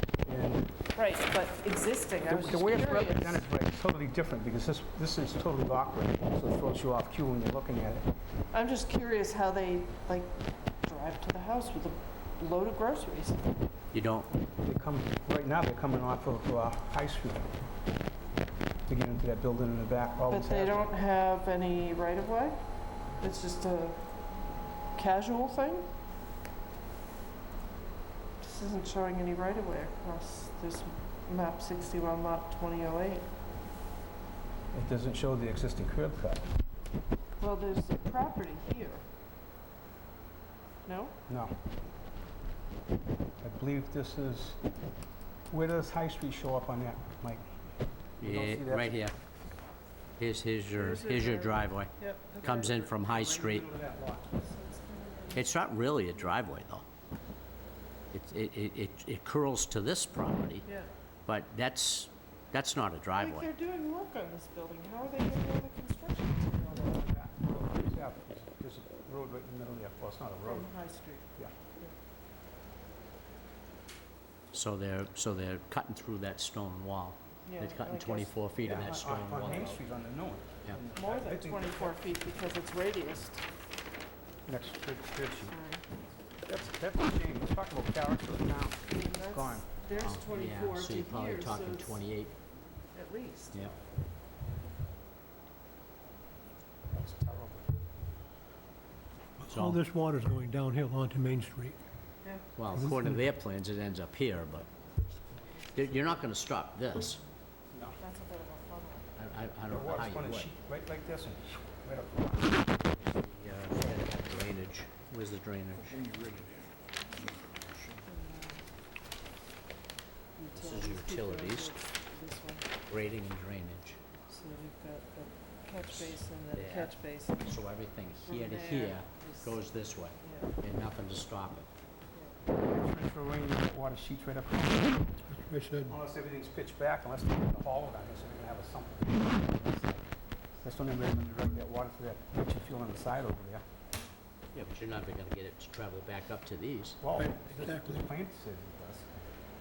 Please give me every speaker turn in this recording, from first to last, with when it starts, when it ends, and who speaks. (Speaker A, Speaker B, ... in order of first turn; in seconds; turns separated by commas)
Speaker A: 0.2-0.7, Speaker B: 0.9-3.4, Speaker A: 2.3-8.1, Speaker B: 8.5-13.6, Speaker C: 13.9-14.3, Speaker A: 14.6-17.5, Speaker A: 18.9-20.9, Speaker B: 20.3-22.6, Speaker B: 23.2-24.0, Speaker B: 24.9-25.9, Speaker B: 28.4-33.3, Speaker A: 34.7-36.5, Speaker B: 37.4-39.0, Speaker B: 40.9-41.1, Speaker A: 41.3-41.5, Speaker A: 43.4-44.6, Speaker A: 45.5-47.5, Speaker C: 48.2-49.1, Speaker A: 48.2-48.9, Speaker C: 50.2-51.9, Speaker B: 50.8-52.9, Speaker C: 52.4-53.6, Speaker A: 53.0-54.4, Speaker B: 54.4-56.3, Speaker C: 55.3-56.8, Speaker C: 58.1-60.6, Speaker C: 61.2-63.5, Speaker B: 63.1-67.0, Speaker A: 66.7-70.7, Speaker B: 70.4-71.9, Speaker C: 74.5-79.8, Speaker B: 77.5-78.3, Speaker A: 78.6-82.0, Speaker B: 80.9-83.4, Speaker A: 84.5-85.5, Speaker B: 85.4-85.8, Speaker A: 86.5-89.6, Speaker B: 88.9-92.0, Speaker C: 90.0-92.3, Speaker B: 92.9-93.7, Speaker A: 96.9-97.7, Speaker D: 99.4-101.8, Speaker C: 99.5-99.8, Speaker C: 102.5-104.7, Speaker C: 105.7-107.2, Speaker A: 107.7-108.0, Speaker B: 108.0-109.1, Speaker C: 109.2-110.5, Speaker A: 109.7-112.6, Speaker C: 113.0-115.9, Speaker B: 118.0-118.6, Speaker B: 120.3-122.7, Speaker C: 120.5-121.7, Speaker C: 122.9-124.0, Speaker B: 124.3-127.6, Speaker C: 125.9-131.7, Speaker B: 128.2-129.7, Speaker B: 130.2-130.5, Speaker A: 132.7-135.1, Speaker D: 135.3-135.9, Speaker A: 135.9-140.1, Speaker A: 140.6-143.6, Speaker C: 144.5-147.0, Speaker A: 147.0-149.1, Speaker D: 147.2-148.0